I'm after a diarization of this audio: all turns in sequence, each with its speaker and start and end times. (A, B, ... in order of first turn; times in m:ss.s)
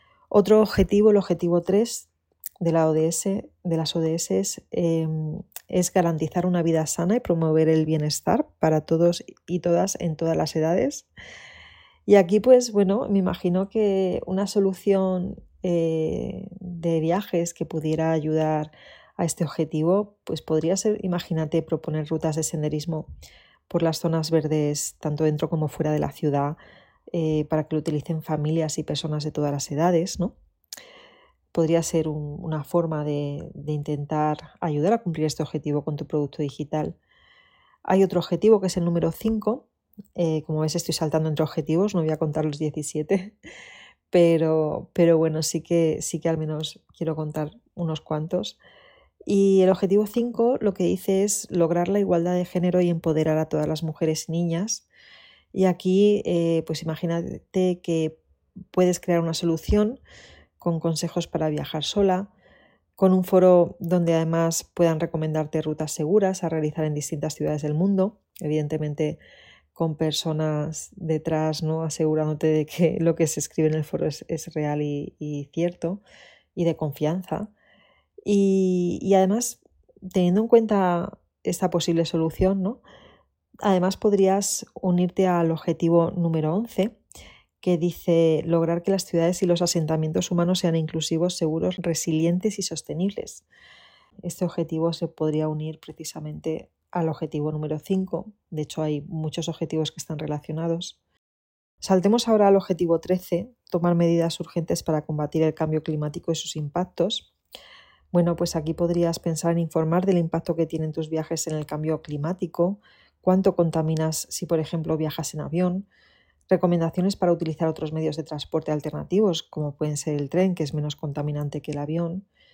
0:00.3-0:02.1 A
0:02.6-0:11.0 A
0:12.1-0:23.1 A
0:23.7-0:26.6 A
0:27.1-0:30.3 A
0:31.5-0:37.0 A
0:37.8-0:43.3 A
0:44.1-0:48.6 A
0:49.3-0:54.8 A
0:55.5-0:58.2 A
0:58.7-1:00.0 A
1:00.6-1:02.3 A
1:03.0-1:09.2 A
1:09.7-1:16.0 A
1:16.6-1:17.5 A
1:18.2-1:19.6 A
1:20.1-1:22.8 A
1:23.6-1:27.0 A
1:27.6-1:33.4 A
1:34.2-1:41.0 A
1:41.8-1:47.3 A
1:48.1-1:55.8 A
1:56.5-2:02.2 A